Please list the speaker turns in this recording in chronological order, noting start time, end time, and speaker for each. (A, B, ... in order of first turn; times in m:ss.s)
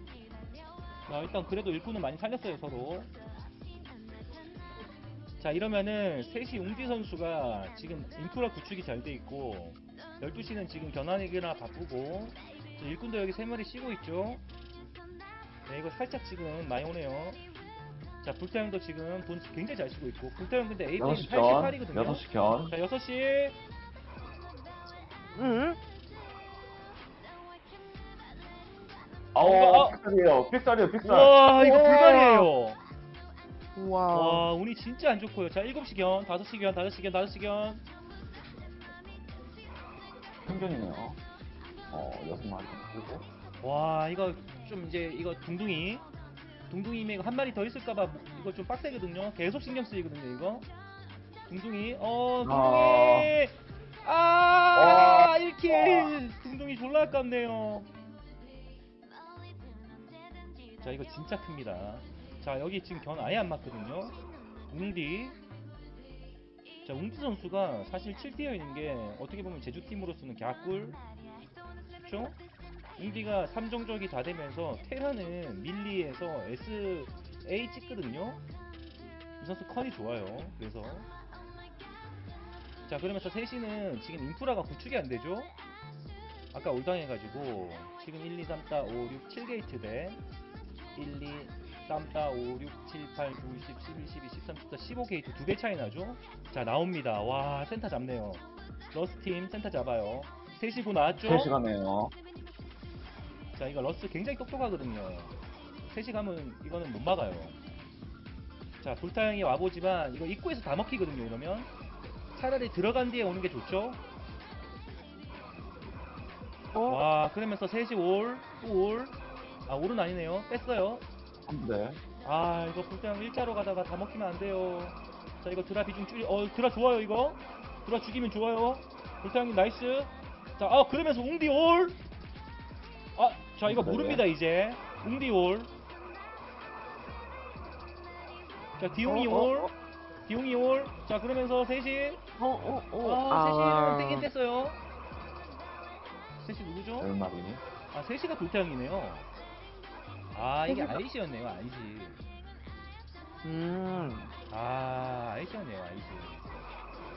0:01.1-0:03.1 A
0:05.4-0:14.4 A
0:15.7-0:17.4 A
0:18.2-0:23.6 A
0:21.0-0:22.8 B
0:25.3-0:25.8 C
0:29.3-0:32.5 B
0:29.4-0:30.0 A
0:31.0-0:32.8 A
0:33.8-0:34.4 C
0:34.1-0:37.8 A
0:40.4-0:41.2 B
0:41.9-0:43.2 B
0:43.6-0:46.1 A
0:46.7-0:50.7 A
0:51.5-0:57.9 A
0:52.4-0:53.3 B
0:54.7-0:56.1 B
1:00.8-1:04.2 A
1:04.7-1:05.4 A
1:06.8-1:11.0 A
1:12.0-1:12.4 A
1:13.0-1:18.4 A
1:19.4-1:21.1 A
1:22.9-1:25.5 A
1:26.5-1:30.2 A
1:30.9-1:41.5 A
1:41.2-1:42.1 B
1:43.5-1:45.3 A
1:45.9-1:47.6 A
1:48.8-1:51.7 A
1:52.3-1:54.0 A
1:56.7-1:57.0 C
1:56.8-1:59.2 A
1:59.7-2:01.0 A
2:01.5-2:02.0 B
2:02.2-2:12.0 A
2:13.2-2:15.7 A
2:13.6-2:14.2 B
2:18.8-2:19.7 A
2:19.0-2:19.7 C
2:20.2-2:22.2 A
2:22.4-2:24.3 C
2:23.0-2:24.8 A
2:26.4-2:27.1 A
2:27.0-2:27.6 B
2:27.9-2:29.3 A
2:30.3-2:32.2 A
2:30.7-2:31.0 C
2:33.4-2:34.3 C
2:34.5-2:36.7 A